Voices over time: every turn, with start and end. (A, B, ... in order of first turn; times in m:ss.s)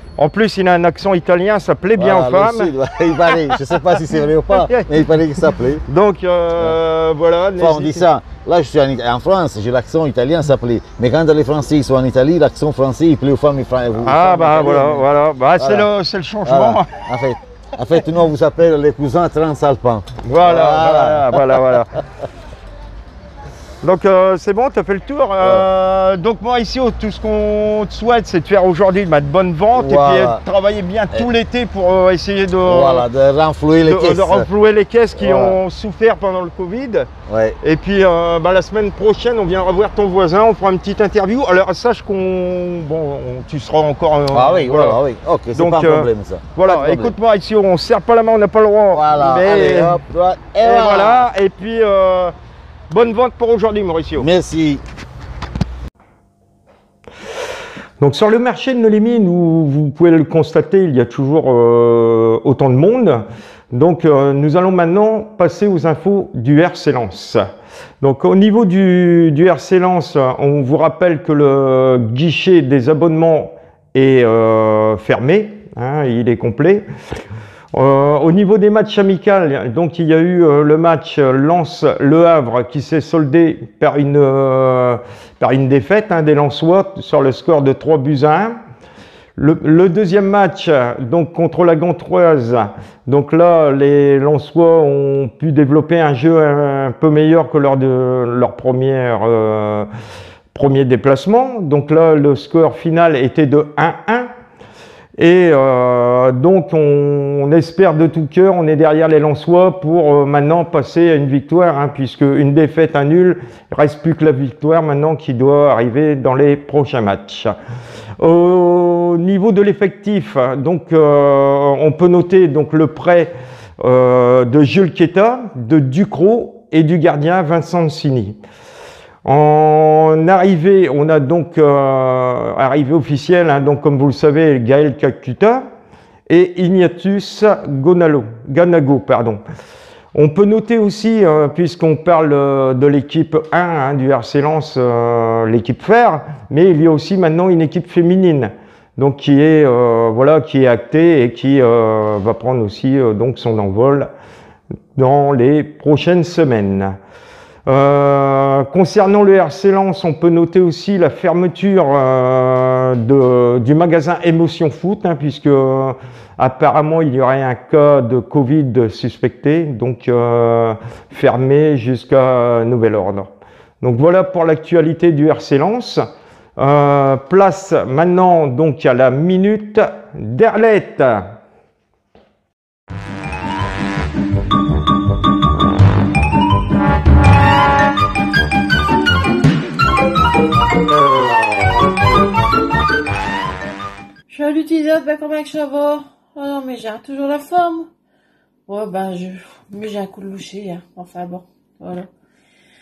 0:00.2-0:02.7 A
0:02.0-0:05.8 B
0:03.3-0:03.6 A
0:04.5-0:05.1 A
0:05.9-0:08.1 A
0:07.6-0:15.1 B
0:14.0-0:16.9 A
0:15.6-0:15.9 B
0:16.4-0:21.6 B
0:20.2-0:22.0 A
0:23.8-0:33.1 A
0:25.4-0:25.6 B
0:29.7-0:30.4 B
0:32.6-0:34.5 B
0:33.9-0:37.1 A
0:35.2-0:35.6 B
0:37.3-0:37.6 B
0:37.6-0:45.0 A
0:44.3-0:47.2 B
0:45.6-0:50.0 A
0:48.9-0:51.3 B
0:50.6-0:52.3 A
0:52.9-0:54.3 A
0:54.2-0:54.8 B
0:58.0-1:07.4 A
1:08.0-1:16.8 A
1:17.7-1:28.6 A
1:29.4-1:39.9 A
1:40.5-1:44.3 A
1:45.2-1:57.5 A
1:58.2-2:08.4 A
2:09.2-2:15.6 A
2:16.3-2:19.4 A
2:20.2-2:34.1 A
2:35.0-2:37.0 A
2:37.7-2:53.3 A
2:53.8-2:56.0 A
2:56.6-3:01.4 A
3:14.3-3:17.9 C
3:18.7-3:22.1 C